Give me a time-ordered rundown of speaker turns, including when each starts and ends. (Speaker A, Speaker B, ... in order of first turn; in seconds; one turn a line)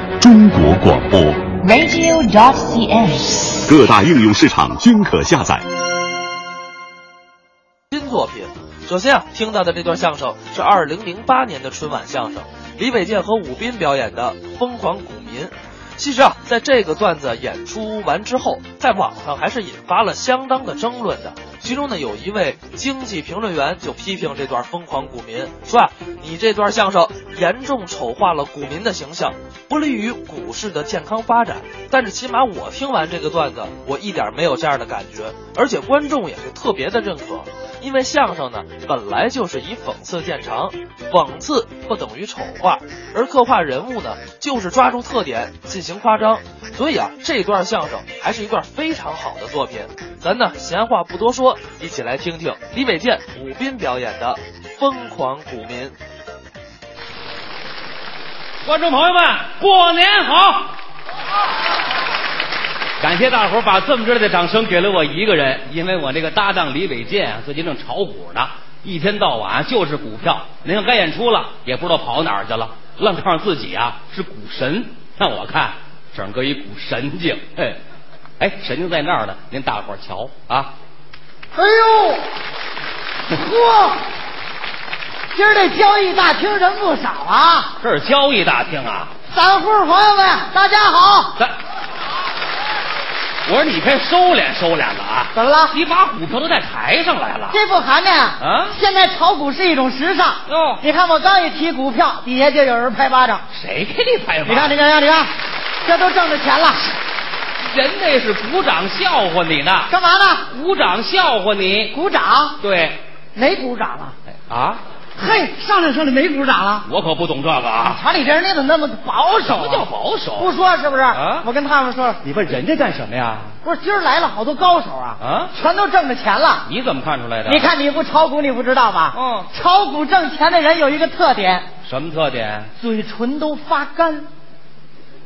Speaker A: 0.2-1.6
Speaker B: 1.6-3.5
Speaker A: 3.6-5.7
Speaker C: 7.9-56.0
Speaker D: 58.6-60.7
Speaker D: 63.0-77.8
Speaker D: 78.4-80.7
Speaker E: 81.5-82.2
Speaker E: 83.3-84.0
Speaker E: 85.3-87.8
Speaker D: 87.8-89.1
Speaker E: 89.3-91.4
Speaker D: 93.5-97.6
Speaker E: 95.3-95.8
Speaker E: 97.5-103.5
Speaker D: 98.4-98.8
Speaker D: 100.5-100.8
Speaker D: 103.5-104.8
Speaker E: 104.5-105.3
Speaker E: 105.8-106.9
Speaker D: 107.6-109.9
Speaker E: 109.9-110.5
Speaker D: 110.5-111.9
Speaker E: 111.9-112.6
Speaker D: 112.6-113.0
Speaker E: 113.3-114.2
Speaker D: 114.5-114.8
Speaker E: 115.2-116.9
Speaker D: 116.9-118.0
Speaker E: 117.8-122.2
Speaker D: 119.3-120.5
Speaker D: 121.1-121.5
Speaker D: 122.2-123.5
Speaker E: 123.6-126.7
Speaker D: 125.2-125.5
Speaker D: 126.7-127.7
Speaker E: 127.5-131.7
Speaker D: 129.1-129.5
Speaker D: 131.8-132.7
Speaker E: 132.8-134.3